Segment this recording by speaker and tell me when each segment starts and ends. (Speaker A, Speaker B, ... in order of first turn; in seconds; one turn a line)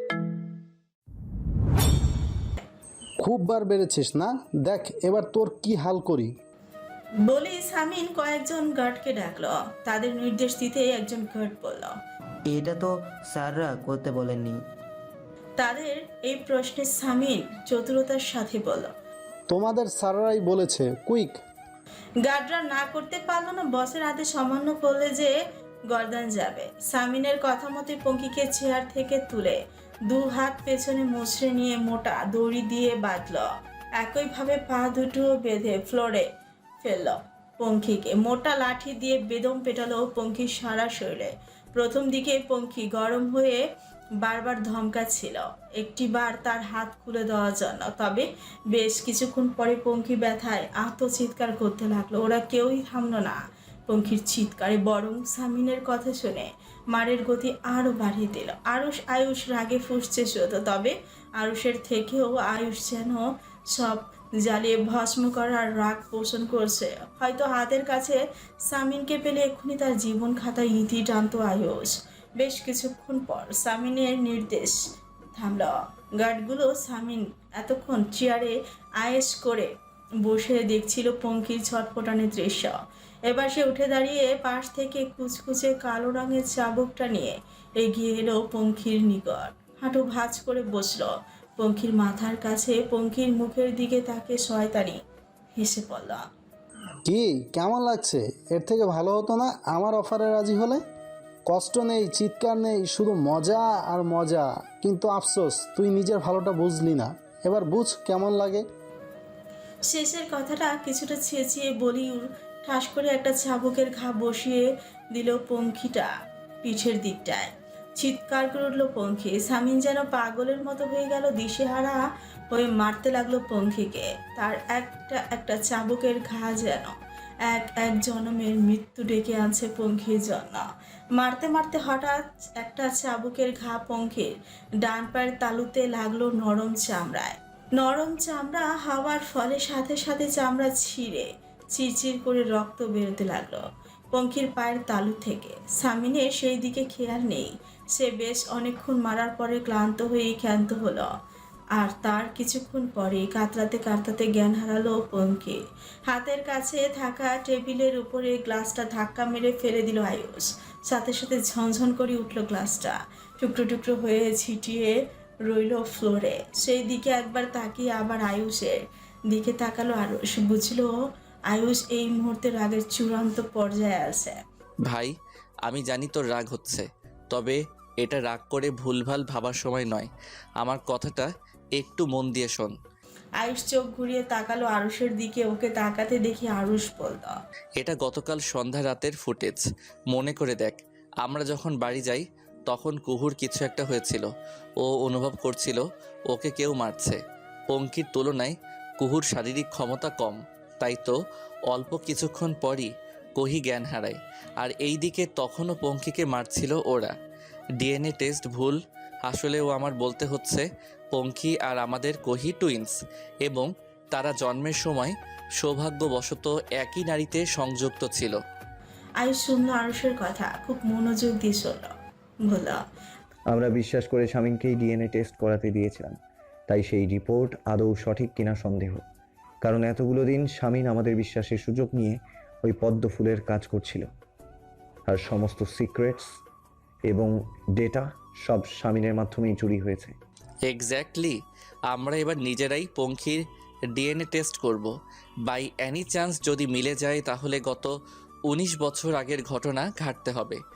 Speaker A: 3.2-6.3
Speaker B: 7.3-11.9
Speaker C: 12.4-14.6
Speaker B: 15.6-18.9
Speaker A: 19.5-21.4
Speaker B: 22.2-25.3
Speaker B: 25.9-33.5
Speaker B: 34.0-36.2
Speaker B: 36.8-43.6
Speaker B: 44.2-74.8
Speaker B: 75.3-79.7
Speaker B: 80.2-82.7
Speaker B: 83.3-95.0
Speaker B: 95.6-96.2
Speaker A: 97.0-100.8
Speaker A: 101.5-108.6
Speaker B: 109.8-116.1
Speaker B: 116.6-122.0
Speaker B: 122.5-126.9
Speaker B: 127.4-130.6
Speaker B: 131.2-151.1
Speaker B: 151.7-155.6
Speaker B: 156.1-164.9
Speaker B: 165.4-170.9
Speaker B: 171.5-174.4
Speaker D: 174.8-175.1
Speaker D: 175.6-180.1
Speaker D: 180.6-182.7
Speaker B: 183.4-187.3
Speaker D: 187.8-194.3
Speaker D: 194.8-197.2
Speaker D: 197.7-201.2
Speaker D: 201.7-207.1
Speaker D: 207.8-218.4
Speaker B: 219.2-221.9
Speaker B: 222.4-222.8
Speaker E: 223.5-226.2
Speaker E: 226.7-229.0
Speaker E: 229.6-234.1
Speaker E: 235.1-236.3
Speaker E: 237.1-240.2
Speaker D: 240.7-241.4
Speaker D: 241.9-243.4
Speaker D: 243.9-244.9
Speaker D: 245.5-247.9
Speaker D: 248.5-250.6